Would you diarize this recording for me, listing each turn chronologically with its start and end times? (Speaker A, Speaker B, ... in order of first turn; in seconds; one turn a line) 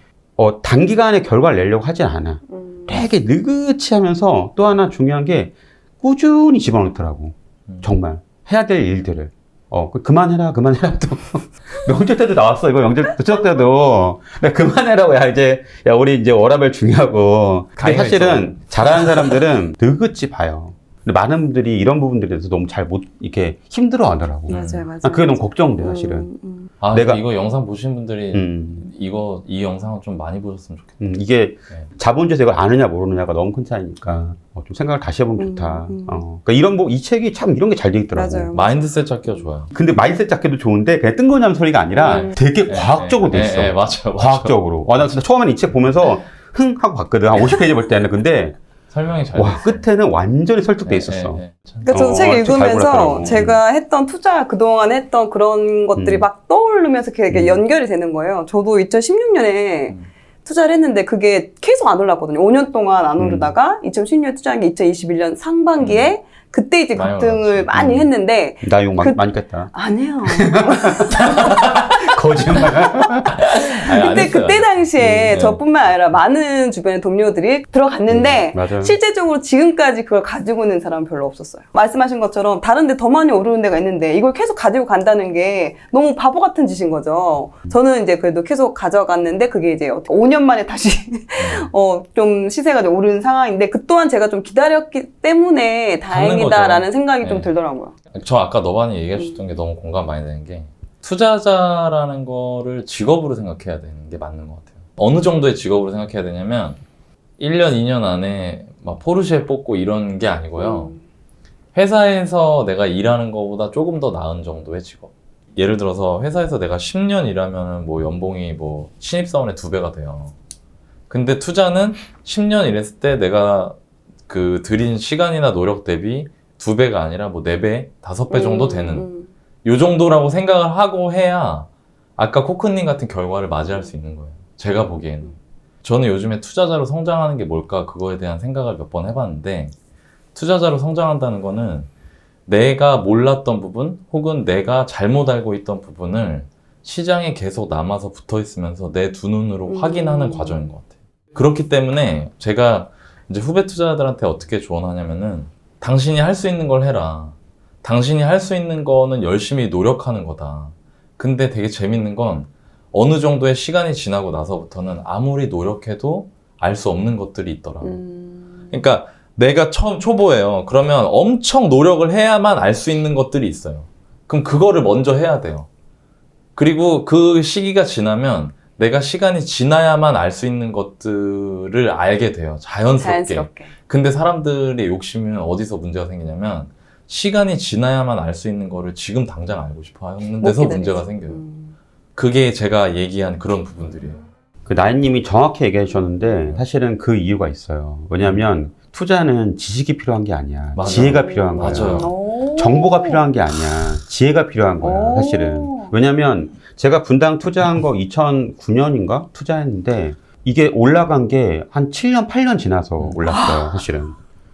Speaker A: 0.4-26.3
Speaker B: 2.5-3.1
Speaker C: 7.7-8.0
Speaker C: 17.8-19.4
Speaker B: 24.5-26.7
Speaker C: 24.5-24.9
Speaker C: 26.8-31.0
Speaker A: 26.9-27.2
Speaker A: 28.3-28.9
Speaker A: 31.0-38.5
Speaker B: 35.4-36.2
Speaker B: 38.1-38.8
Speaker C: 38.5-39.7
Speaker A: 39.7-48.6
Speaker B: 42.0-42.4
Speaker C: 42.0-44.6
Speaker C: 48.9-49.8
Speaker A: 49.3-53.6
Speaker C: 50.9-52.1
Speaker B: 51.8-71.3
Speaker C: 52.9-53.5
Speaker A: 56.0-56.3
Speaker A: 57.3-57.6
Speaker A: 63.2-63.5
Speaker C: 65.8-66.1
Speaker C: 66.9-68.1
Speaker A: 68.6-69.7
Speaker A: 70.2-71.6
Speaker C: 71.1-72.8
Speaker A: 72.1-73.4
Speaker B: 72.6-73.1
Speaker C: 73.3-75.6
Speaker B: 73.6-97.9
Speaker A: 78.1-79.0
Speaker C: 91.4-91.7
Speaker C: 96.1-97.5
Speaker C: 98.1-106.8
Speaker B: 99.1-99.4
Speaker C: 107.4-111.0
Speaker B: 110.6-111.0
Speaker C: 111.8-120.3
Speaker C: 121.1-123.8
Speaker C: 124.3-129.1
Speaker B: 128.3-129.3
Speaker C: 129.6-139.8
Speaker C: 140.3-141.9
Speaker C: 142.5-168.0
Speaker B: 149.7-150.8
Speaker B: 167.8-168.8
Speaker C: 168.7-175.7
Speaker C: 176.6-191.4
Speaker B: 182.9-183.7
Speaker B: 190.4-191.8
Speaker C: 192.2-194.2
Speaker A: 194.7-214.2
Speaker C: 198.2-198.4
Speaker C: 200.8-202.1
Speaker B: 201.0-203.2
Speaker B: 204.8-205.9
Speaker B: 213.3-213.8